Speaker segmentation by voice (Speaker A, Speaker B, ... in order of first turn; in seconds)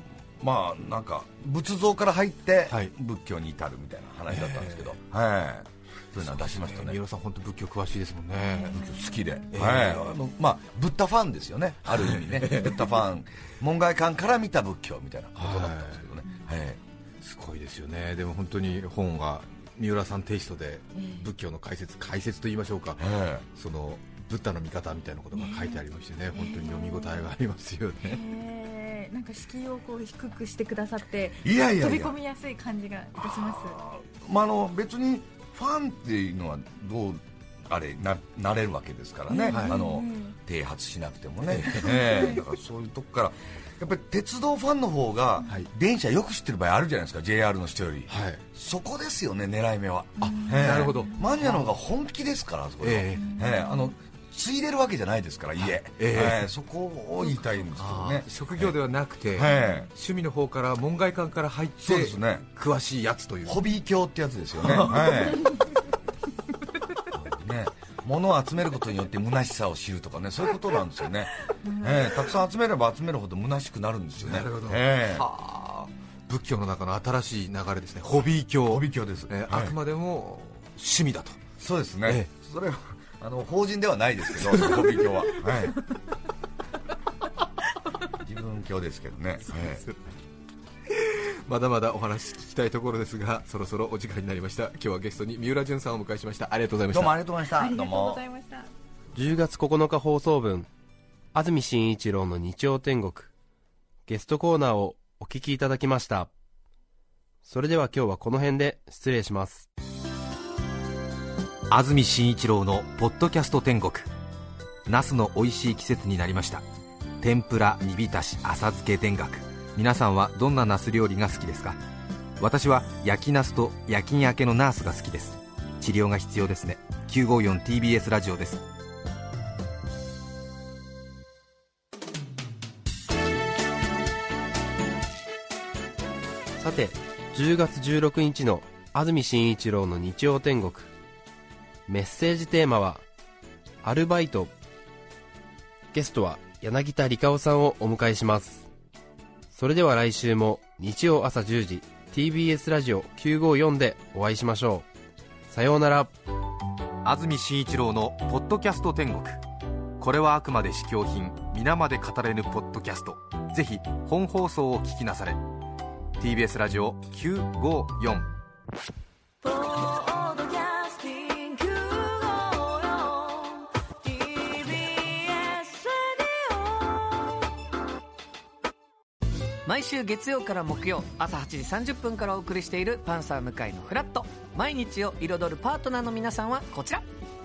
Speaker A: 0.4-7.0, 8.7-16.8, 23.0-23.4, 31.4-32.1, 33.2-58.8, 59.3-59.9, 61.8-62.4, 63.4-65.5, 67.1-75.2, 78.6-79.8, 81.6-85.8, 88.2-89.8, 96.9-98.2
Speaker B: 4.3-4.9, 6.2-10.1, 11.9-12.8, 15.4-16.0, 17.2-28.2, 39.5-39.8, 41.5-42.0, 48.1-48.4, 50.2-51.7, 52.8-53.4, 55.6-56.5, 57.8-63.6, 64.6-65.1, 74.2-81.4, 84.5-84.8, 89.5-89.9, 90.9-97.2, 111.7-114.1, 114.8-116.6, 117.2-121.8, 122.4-128.6, 157.0-159.4, 160.0-165.4, 166.2-168.3
Speaker C: 8.7-9.5, 20.9-21.2, 25.3-25.8, 26.3-27.3, 28.0-33.8, 39.3-40.4, 41.9-42.4, 50.2-51.1, 53.2-53.9, 59.4-59.9, 71.6-72.2, 97.5-98.7
Speaker D: 99.1-100.7, 101.3-103.3, 104.1-106.3, 107.4-109.7, 136.6-140.9, 141.9-143.0, 143.8-144.5, 145.9-148.7, 149.5-154.9, 155.5-156.1
Speaker E: 169.4-176.7
Speaker F: 179.6-187.0